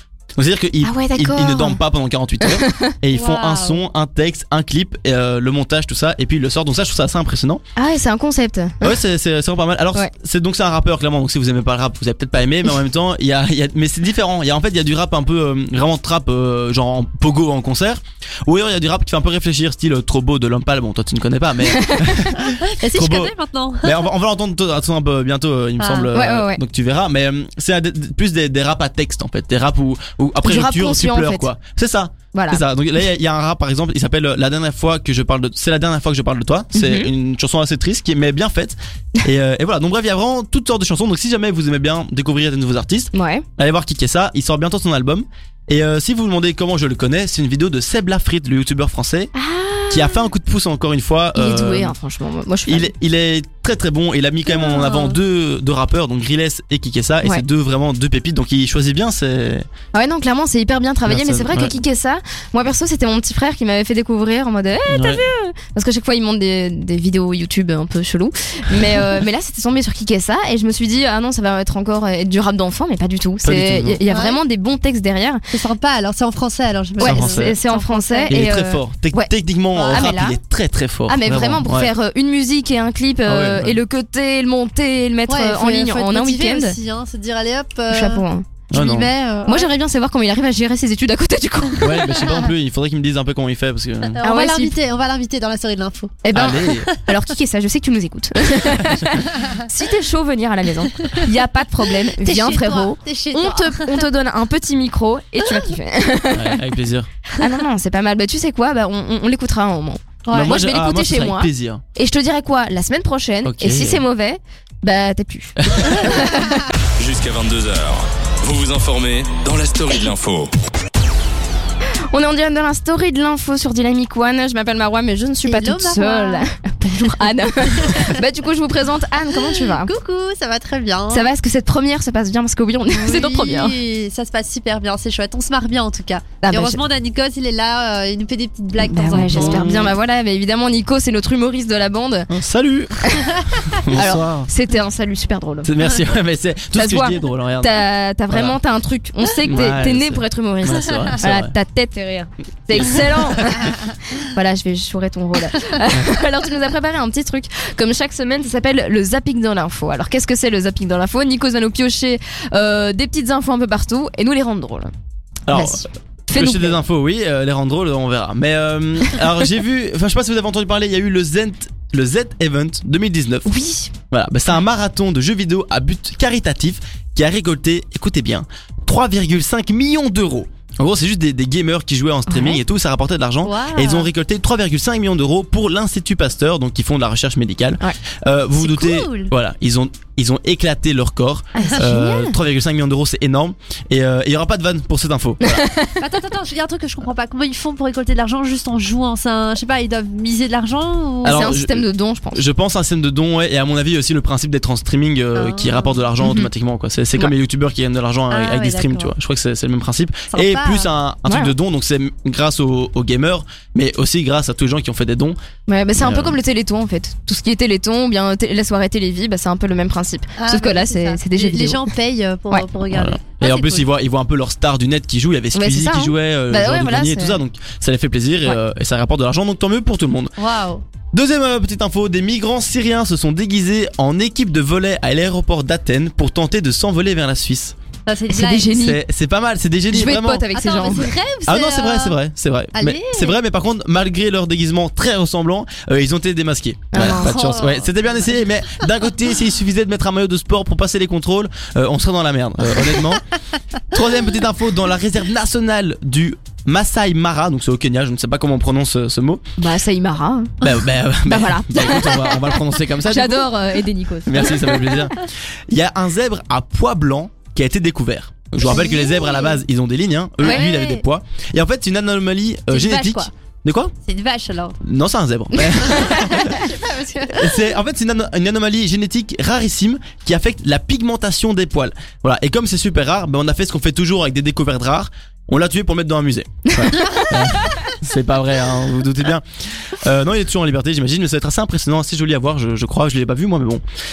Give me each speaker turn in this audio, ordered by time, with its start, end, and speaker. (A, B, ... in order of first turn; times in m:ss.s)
0:00.4-0:07.6 A
0:00.8-0:01.8 B
0:02.4-0:02.9 B
0:03.1-0:03.8 C
0:07.8-0:09.0 B
0:08.8-0:49.3 A
0:21.7-0:22.3 B
0:22.5-0:24.1 C
0:25.8-0:26.1 C
0:26.1-0:26.6 B
0:30.4-0:31.5 B
0:32.3-0:32.6 B
0:36.7-0:37.1 B
0:43.1-0:43.5 B
0:49.4-0:50.3 B
0:49.9-0:52.0 A
0:51.4-0:52.9 B
0:52.7-0:59.7 A
0:54.6-0:55.2 C
0:59.9-1:15.4 B
1:01.1-1:01.7 A
1:04.9-1:05.2 A
1:13.4-1:14.0 A
1:14.1-1:14.4 C
1:15.5-1:18.5 C
1:17.0-1:20.4 B
1:17.0-1:17.6 A
1:18.3-1:21.9 A
1:19.9-1:20.1 C
1:21.1-1:26.8 B
1:23.3-1:23.8 A
1:25.3-1:29.7 C
1:27.9-1:28.5 B
1:28.7-1:29.1 A
1:29.5-1:32.4 B
1:31.8-1:34.2 A
1:34.1-1:36.8 C
1:34.2-1:34.8 B
1:36.2-1:46.6 B
1:36.3-1:36.9 A
1:38.8-1:39.1 A
1:42.2-1:44.1 C
1:46.3-1:47.1 A
1:47.4-1:56.6 B
1:50.3-1:50.5 C
1:50.3-1:51.8 A
1:53.4-1:54.0 A
1:55.6-1:56.1 A
1:57.0-2:00.5 D
2:02.1-2:09.9 B
2:05.4-2:06.5 C
2:07.7-2:08.2 C
2:09.5-2:11.3 C
2:11.1-2:13.8 B
2:12.9-2:19.7 C
2:16.4-2:16.8 B
2:18.8-2:22.3 B
2:19.1-2:20.0 A
2:22.3-2:24.5 A
2:23.0-2:23.3 B
2:23.9-2:25.7 B
2:25.6-2:27.8 A
2:26.8-2:44.9 B
2:28.3-2:28.6 A
2:29.4-2:31.5 A
2:32.7-2:33.7 A
2:45.5-3:15.7 A
2:45.5-2:46.8 B
2:53.5-2:53.9 B
3:02.3-3:02.6 B
3:03.4-3:04.1 C
3:08.6-3:09.3 C
3:11.6-3:12.4 B
3:15.4-3:16.0 B
3:16.0-3:21.5 C
3:21.2-3:22.4 B
3:21.2-3:35.4 A
3:25.4-3:26.0 C
3:26.2-3:26.5 B
3:28.3-3:29.1 C
3:30.3-3:30.9 C
3:31.3-3:31.5 B
3:35.7-3:41.8 B
3:36.0-3:36.4 A
3:40.4-3:43.9 C
3:42.9-3:50.3 A
3:45.5-3:47.4 B
3:50.4-3:50.8 C
3:51.1-3:57.8 A
3:58.1-3:58.7 C
3:58.3-3:59.0 B
3:58.7-4:00.5 A
3:59.9-4:01.1 B
4:00.5-4:02.2 C
4:01.5-4:13.3 A
4:02.7-4:03.4 C
4:06.9-4:07.3 B
4:07.0-4:08.4 C
4:13.9-4:19.4 A
4:19.6-4:20.5 B
4:20.6-4:23.5 A
4:21.2-4:25.1 B
4:24.2-4:33.9 A
4:28.6-4:29.6 C
4:30.4-4:30.7 B
4:30.4-4:31.0 C
4:32.7-4:33.3 B
4:34.0-4:34.8 C
4:34.8-4:36.6 A
4:35.8-4:36.3 B
4:35.9-4:37.7 C
4:37.4-4:53.8 A
4:46.7-4:47.3 B